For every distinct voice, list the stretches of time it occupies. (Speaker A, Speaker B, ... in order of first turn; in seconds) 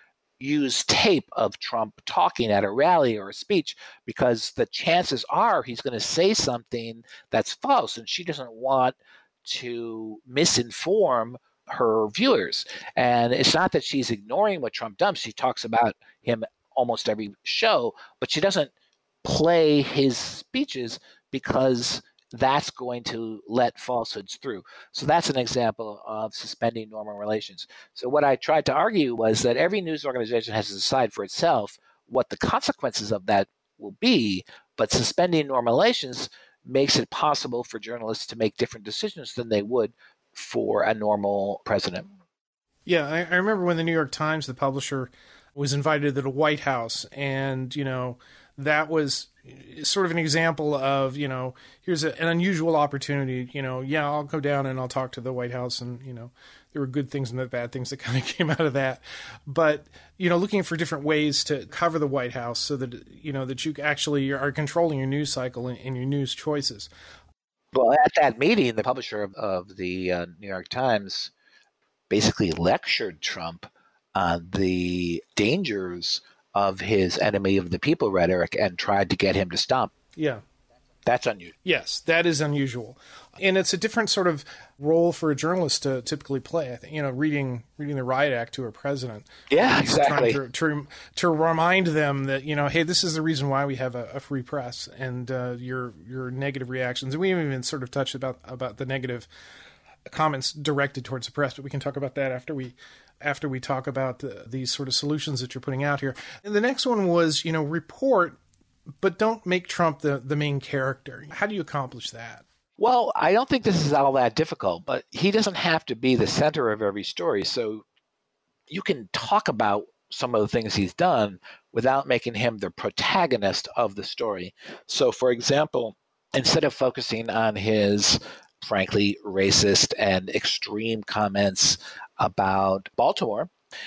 Speaker A: 0.4-18.7, 19.2-42.1, 67.7-71.3, 72.1-79.9, 81.1-81.5, 89.5-90.4, 112.8-117.8, 118.7-133.5
Speaker B: 42.9-66.9, 80.2-80.4, 81.7-99.3, 100.1-108.4, 109.0-112.5